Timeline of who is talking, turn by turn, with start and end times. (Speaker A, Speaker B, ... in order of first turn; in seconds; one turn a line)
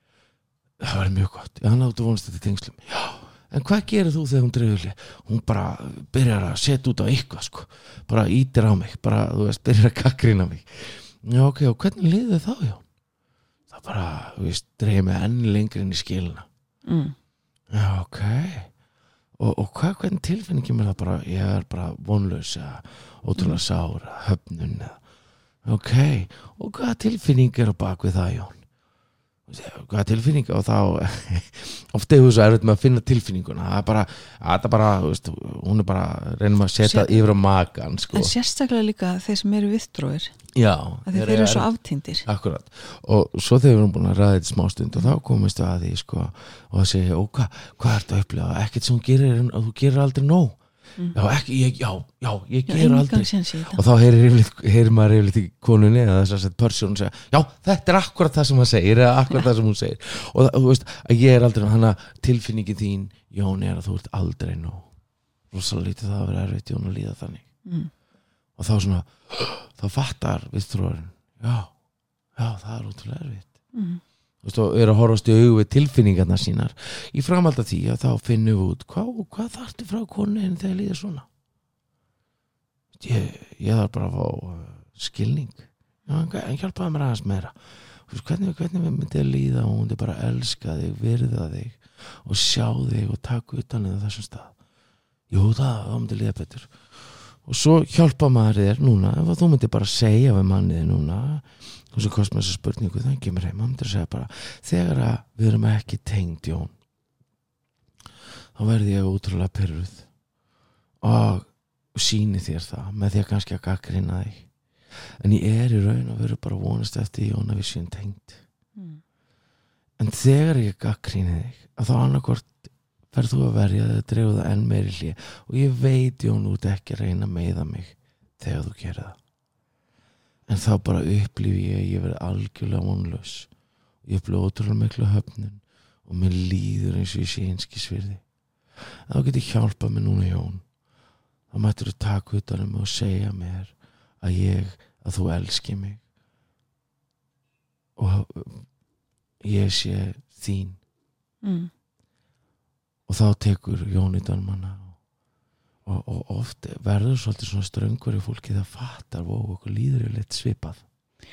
Speaker A: 0.8-12.8
Speaker A: 13.7-16.5
Speaker B: 16.9-17.1
Speaker A: 17.7-18.7
Speaker A: 19.4-25.0
Speaker A: 25.6-28.6
Speaker A: 29.5-38.3
Speaker B: 36.8-37.2
Speaker B: 38.1-40.4
Speaker A: 40.5-41.7
Speaker B: 41.1-42.3
Speaker A: 42.2-50.6
Speaker A: 51.1-64.9
Speaker B: 52.7-53.8
Speaker A: 65.5-67.4
Speaker B: 67.7-67.9
Speaker A: 68.6-71.7
Speaker A: 72.4-73.5
Speaker B: 73.7-74.0
Speaker A: 74.4-81.3
Speaker A: 83.0-87.5
Speaker A: 88.1-94.5
Speaker A: 95.3-96.7
Speaker A: 97.4-106.7
Speaker A: 108.5-110.1
Speaker A: 111.0-114.4
Speaker A: 115.2-118.4
Speaker A: 120.0-129.2
Speaker A: 130.5-133.5
Speaker A: 134.1-138.2
Speaker A: 139.1-140.6
Speaker A: 141.5-146.0
Speaker A: 148.0-148.6
Speaker A: 149.4-150.8
Speaker B: 151.4-151.7
Speaker A: 153.1-154.9
Speaker A: 155.9-160.8